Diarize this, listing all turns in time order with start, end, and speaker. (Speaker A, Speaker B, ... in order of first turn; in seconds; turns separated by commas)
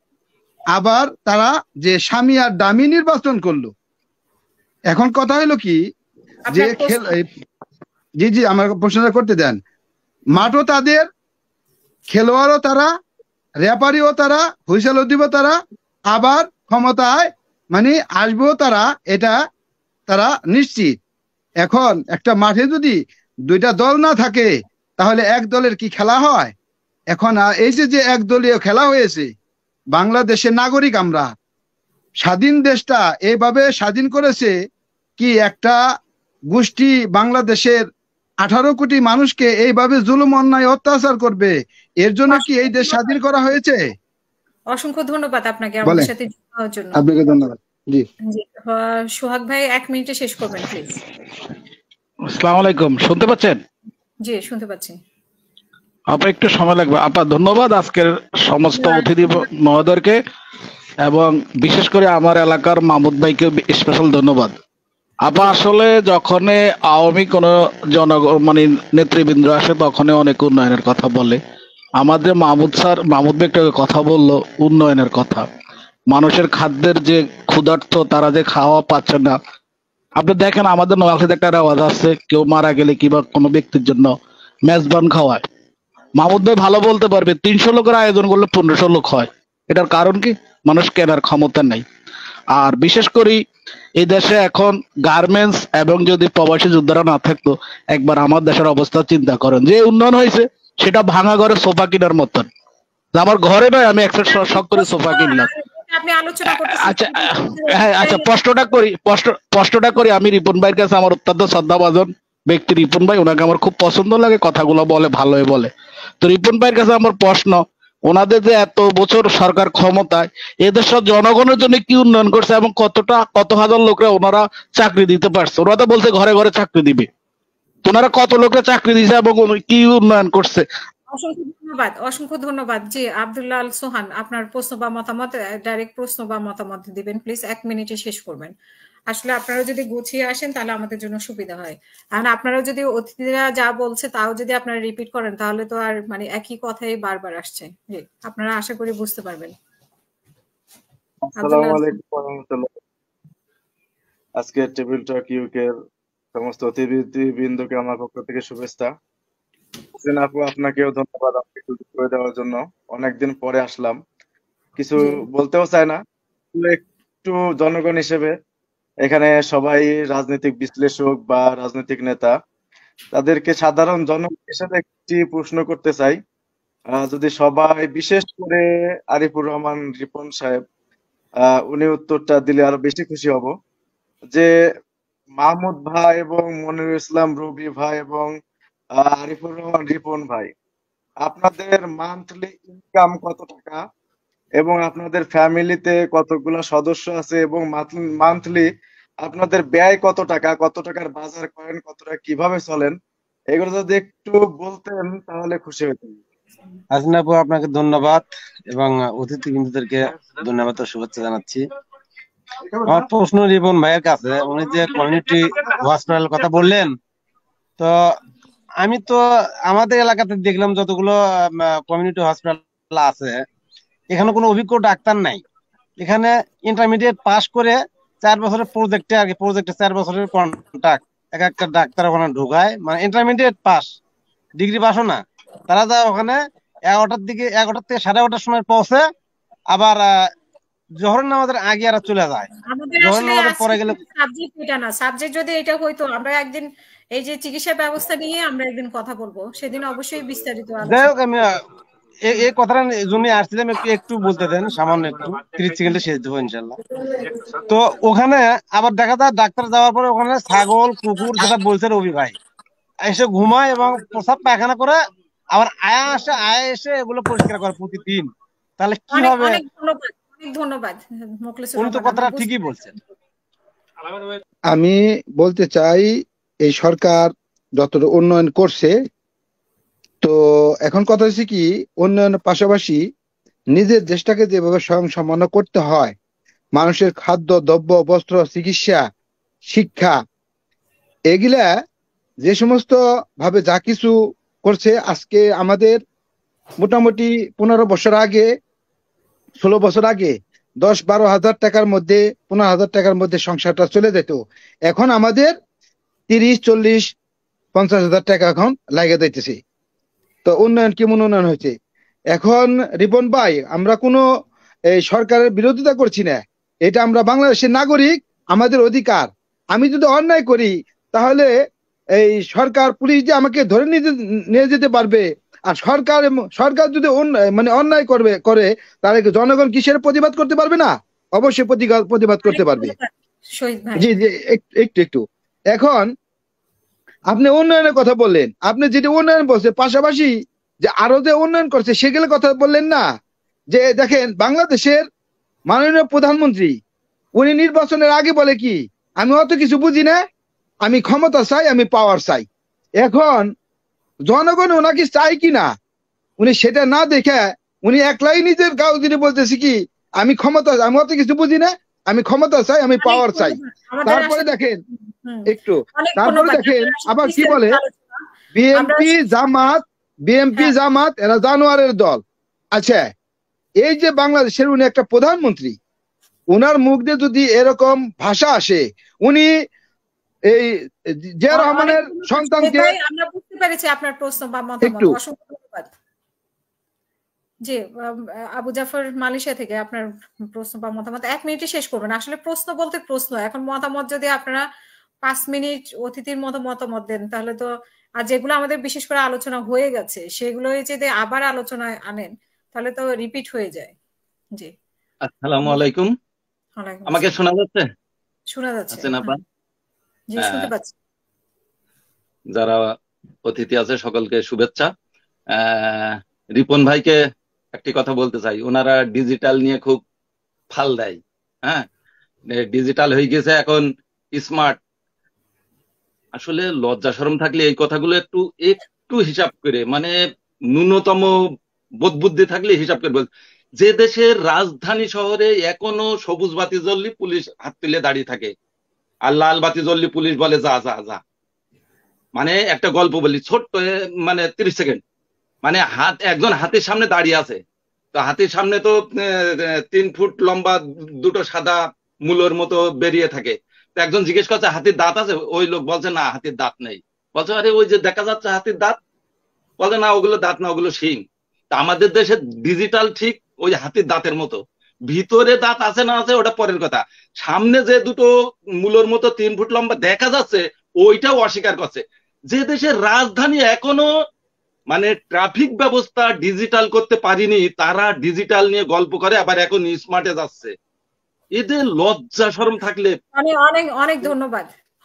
Speaker A: 0.7-3.7, Speaker A: 4.9-5.8, Speaker B: 6.5-7.1, Speaker A: 6.5-7.2, Speaker A: 8.2-9.6, Speaker A: 10.3-11.1, Speaker A: 12.1-12.9, Speaker A: 13.6-15.6, Speaker A: 16.1-19.4, Speaker A: 20.1-20.9, Speaker A: 21.6-23.0, Speaker A: 23.5-26.5, Speaker A: 27.1-29.3, Speaker A: 29.9-31.3, Speaker A: 32.2-34.5, Speaker A: 35.2-35.8, Speaker A: 36.5-37.8, Speaker A: 38.4-43.8, Speaker B: 42.3-43.2, Speaker B: 44.7-47.0, Speaker A: 46.9-48.0, Speaker B: 48.3-51.0, Speaker C: 52.3-53.6, Speaker B: 54.2-55.0, Speaker C: 56.1-60.2, Speaker B: 58.8-59.3, Speaker C: 61.0-64.5, Speaker C: 65.2-71.4, Speaker C: 72.0-75.5, Speaker C: 76.1-79.4, Speaker C: 80.2-84.1, Speaker C: 84.7-85.4, Speaker C: 86.2-91.8, Speaker C: 92.5-93.4, Speaker C: 94.0-102.5, Speaker C: 103.2-105.5, Speaker B: 104.2-108.3, Speaker C: 106.5-127.1, Speaker C: 127.8-130.6, Speaker B: 131.1-138.5, Speaker B: 139.1-149.5, Speaker B: 151.3-152.0, Speaker D: 151.4-152.7, Speaker D: 154.4-155.7, Speaker D: 156.3-158.9, Speaker D: 160.0-164.0, Speaker D: 164.8-166.0, Speaker D: 166.5-168.3, Speaker D: 169.0-172.3, Speaker D: 173.1-176.2, Speaker D: 177.0-180.6, Speaker D: 181.5-183.5, Speaker D: 185.4-188.3, Speaker D: 189.0-190.5, Speaker D: 191.2-193.8, Speaker D: 194.6-198.7, Speaker D: 199.2-203.0, Speaker D: 203.5-206.2, Speaker E: 206.9-211.6, Speaker E: 212.8-217.0, Speaker E: 217.8-218.1, Speaker E: 218.8-223.4, Speaker E: 224.1-225.4, Speaker E: 226.0-233.9, Speaker E: 234.6-239.1, Speaker E: 239.7-240.1, Speaker E: 241.0-242.5, Speaker B: 242.7-251.2, Speaker E: 243.0-244.0, Speaker E: 250.8-251.5, Speaker E: 252.2-256.8, Speaker E: 257.7-262.4, Speaker E: 263.0-265.0, Speaker E: 265.5-269.6, Speaker B: 269.1-272.9, Speaker E: 271.8-272.9, Speaker A: 274.7-276.1, Speaker A: 276.6-278.9, Speaker A: 280.2-283.0, Speaker A: 283.7-286.1, Speaker A: 286.8-289.0, Speaker A: 289.7-290.1, Speaker A: 291.3-291.7, Speaker A: 292.4-296.0, Speaker A: 296.8-298.5, Speaker A: 299.6-305.5, Speaker A: 306.3-307.1, Speaker A: 307.7-309.6, Speaker A: 310.4-311.7, Speaker A: 312.3-314.2, Speaker A: 314.9-321.5, Speaker A: 322.2-332.9, Speaker B: 332.4-334.1, Speaker A: 334.0-336.1, Speaker A: 337.3-343.0, Speaker A: 343.7-345.0, Speaker A: 345.7-346.8, Speaker A: 347.4-350.2, Speaker A: 350.8-352.4, Speaker A: 353.0-353.5, Speaker A: 354.3-355.7, Speaker A: 356.4-364.8, Speaker B: 363.0-369.4, Speaker A: 365.5-367.8, Speaker A: 368.5-372.2, Speaker A: 372.7-373.1, Speaker A: 373.8-375.8, Speaker A: 376.5-379.5, Speaker A: 380.5-380.8, Speaker A: 381.4-382.9, Speaker B: 381.5-385.9, Speaker A: 384.8-385.1, Speaker B: 387.6-394.6, Speaker B: 395.2-403.9, Speaker F: 405.2-406.1, Speaker B: 406.8-407.4, Speaker F: 407.1-407.8, Speaker B: 408.5-409.3, Speaker F: 408.9-409.4, Speaker B: 410.3-410.9, Speaker F: 410.4-410.7, Speaker F: 412.5-412.8, Speaker F: 413.4-414.9, Speaker F: 415.5-417.1, Speaker F: 417.7-420.0, Speaker F: 420.7-421.9, Speaker F: 422.5-424.8, Speaker F: 426.4-430.1, Speaker F: 430.7-431.3, Speaker F: 432.0-438.5, Speaker F: 439.2-441.2, Speaker F: 442.4-445.0, Speaker F: 445.6-447.6, Speaker F: 448.1-459.0, Speaker F: 459.8-468.3, Speaker F: 468.8-474.1, Speaker F: 474.9-480.7, Speaker F: 481.6-483.1, Speaker B: 483.3-484.7